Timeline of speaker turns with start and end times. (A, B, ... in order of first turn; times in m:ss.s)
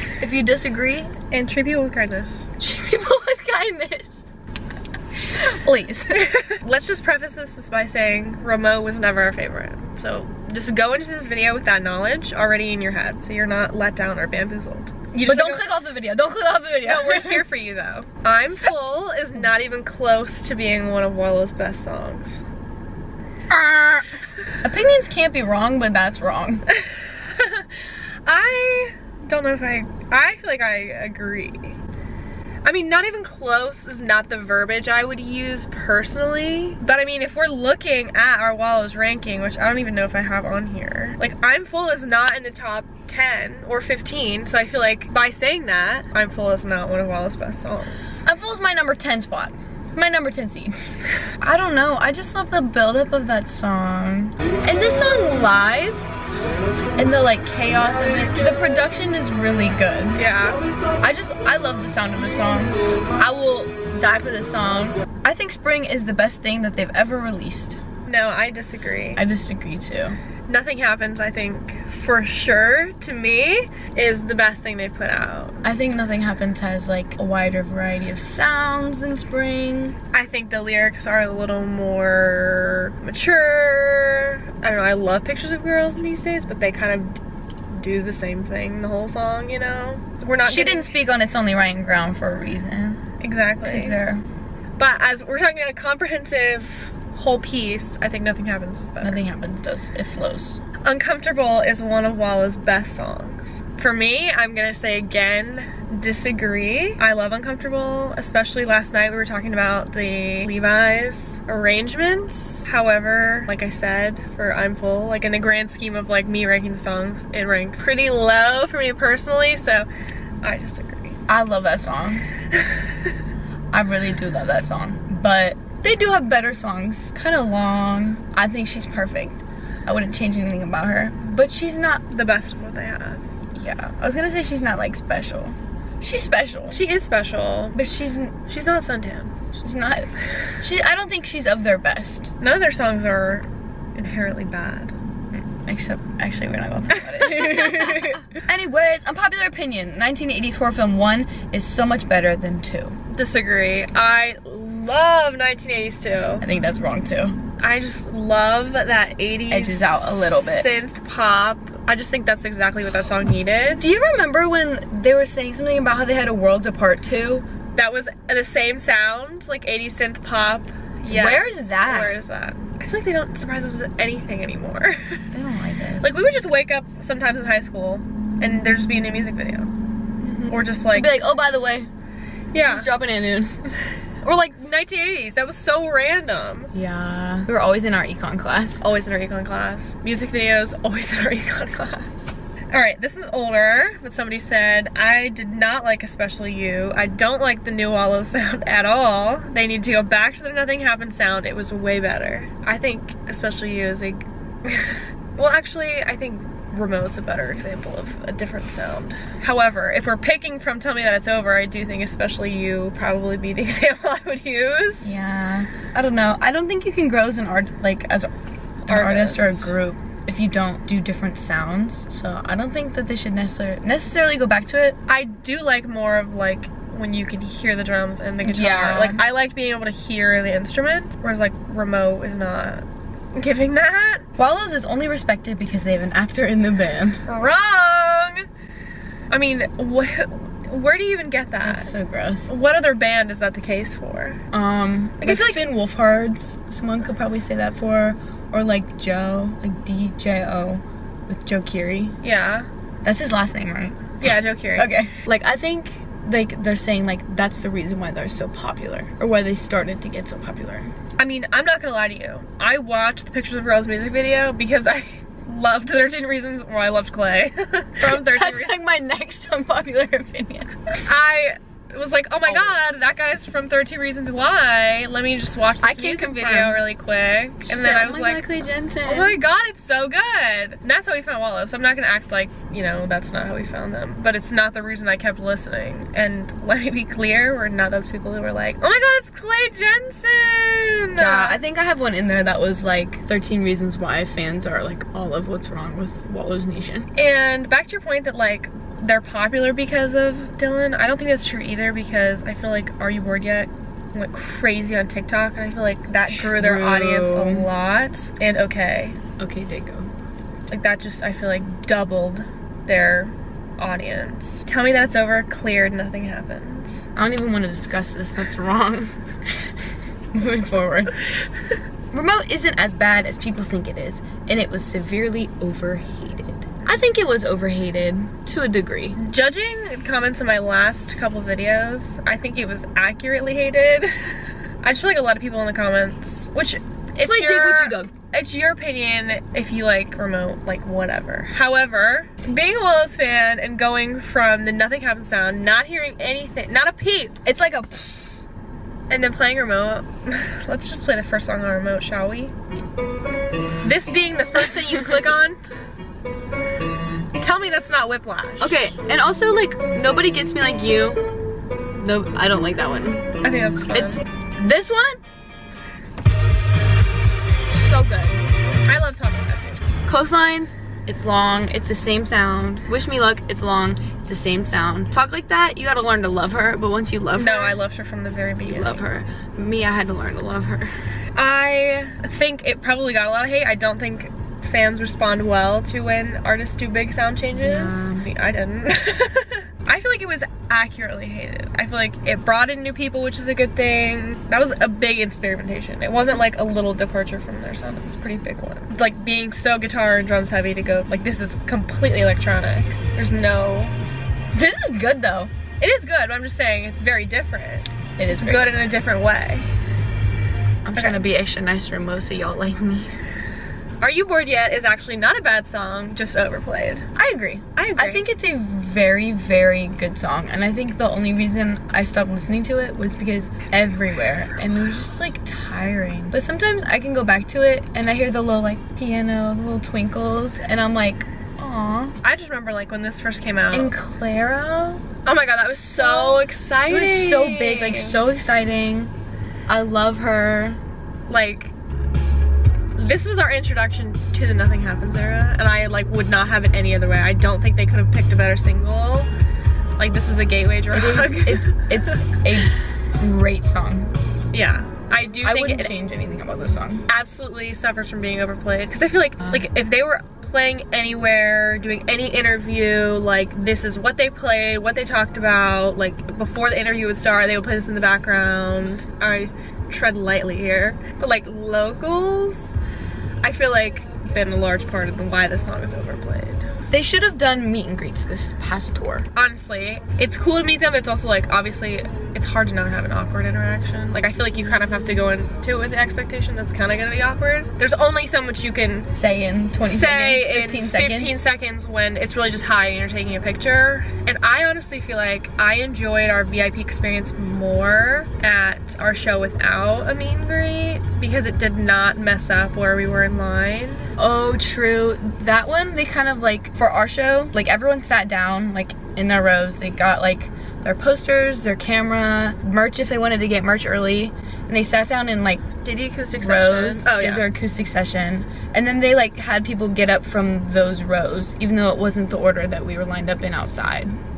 0:00.2-0:01.1 A
0:01.3-0:02.5 B
0:02.6-0:04.3 A
0:05.3-0:06.3 A
0:06.1-0:15.6 B
0:15.2-0:17.4 A
0:16.8-0:22.4 B
0:23.5-0:24.1 A
0:24.6-0:26.6 A
0:26.7-0:27.7 B
0:28.2-0:31.8 B
0:32.6-0:48.2 B
0:48.2-0:50.7 A
0:51.4-0:56.0 A
0:57.0-1:00.2 A
1:00.2-1:00.6 B
1:01.0-1:07.8 A
1:08.1-1:09.2 B
1:09.1-1:10.2 A
1:10.5-1:15.6 B
1:15.6-1:20.0 A
1:20.1-1:27.2 B
1:27.7-1:30.9 B
1:30.4-1:33.0 A
1:33.2-1:34.0 B
1:33.6-1:34.2 A
1:34.8-1:39.2 B
1:39.0-1:40.6 A
1:40.8-1:59.9 B
2:00.4-2:01.2 B
2:01.3-2:02.2 A
2:02.6-2:02.9 B
2:03.7-2:12.0 A
2:12.1-2:13.2 B
2:13.6-2:16.8 A
2:16.7-2:17.8 B
2:17.7-2:18.3 A
2:18.5-2:19.3 B
2:19.5-2:22.3 A
2:22.4-2:24.9 B
2:25.3-2:33.0 A
2:27.3-2:28.0 B
2:33.1-2:36.4 B
2:36.4-2:37.4 A
2:37.6-2:43.8 B
2:39.5-2:40.7 A
2:43.8-2:47.4 A
2:47.8-2:55.2 B
2:51.0-2:52.2 A
2:55.3-2:56.2 A
2:56.0-2:59.7 B
3:00.2-3:01.9 A
3:00.5-3:01.2 B
3:02.5-3:02.9 B
3:02.6-3:03.5 A
3:04.2-3:06.7 B
3:06.7-3:08.8 A
3:08.8-3:35.2 B
3:35.0-3:38.3 A
3:38.8-3:45.0 A
3:38.9-3:39.7 B
3:45.1-3:54.2 B
3:48.4-3:49.2 A
3:54.4-3:57.2 A
3:57.2-3:58.4 B
3:59.3-4:01.9 B
4:01.6-4:02.5 A
4:02.5-4:04.4 B
4:04.5-4:12.2 A
4:05.2-4:05.6 B
4:12.2-4:12.7 B
4:13.0-4:20.9 A
4:14.2-4:15.0 B
4:21.2-4:28.7 B
4:28.0-4:30.8 A
4:31.0-4:38.4 B
4:32.4-4:32.8 A
4:35.8-4:36.8 A
4:37.7-4:39.4 A
4:39.0-4:51.6 B
4:51.2-4:57.1 A
4:57.1-5:09.2 B
5:06.3-5:07.7 A
5:09.4-5:10.1 A
5:10.7-5:17.0 B
5:17.2-5:19.6 A
5:20.3-5:21.1 A
5:22.1-5:29.2 A
5:29.1-5:34.1 B
5:34.8-5:47.4 B
5:37.2-5:38.1 A
5:47.4-5:48.1 A
5:49.1-5:52.5 B
5:53.8-5:55.6 B
5:57.4-5:58.8 B
5:58.6-6:01.3 A
6:02.0-6:03.4 A
6:03.4-6:04.2 B
6:03.9-6:05.2 A
6:07.7-6:08.4 A
6:08.9-6:09.8 B
6:10.0-6:17.8 A
6:17.3-6:19.0 B
6:18.6-6:20.9 A
6:21.4-6:43.9 B
6:27.6-6:28.3 A
6:44.5-6:45.5 A
6:45.8-6:49.7 B
6:48.2-6:48.7 A
6:50.8-6:53.1 A
6:54.0-6:57.0 B
6:57.1-7:12.1 A
6:57.8-6:58.2 B
7:12.2-7:13.9 B
7:13.7-7:15.0 A
7:15.2-7:18.2 B
7:15.8-7:19.1 A
7:19.7-7:20.8 A
7:21.3-7:21.7 B
7:23.0-7:29.3 B
7:30.0-7:32.1 B
7:30.9-7:34.1 A
7:34.5-7:35.9 B
7:35.4-7:37.0 A
7:37.1-7:52.7 B
7:39.4-7:39.7 A
7:53.4-7:56.6 B
7:56.9-7:59.3 A
7:59.3-8:09.1 B
8:09.2-8:11.5 A
8:09.8-8:24.1 B
8:24.2-8:35.7 A
8:35.8-8:37.5 B
8:36.3-8:44.2 A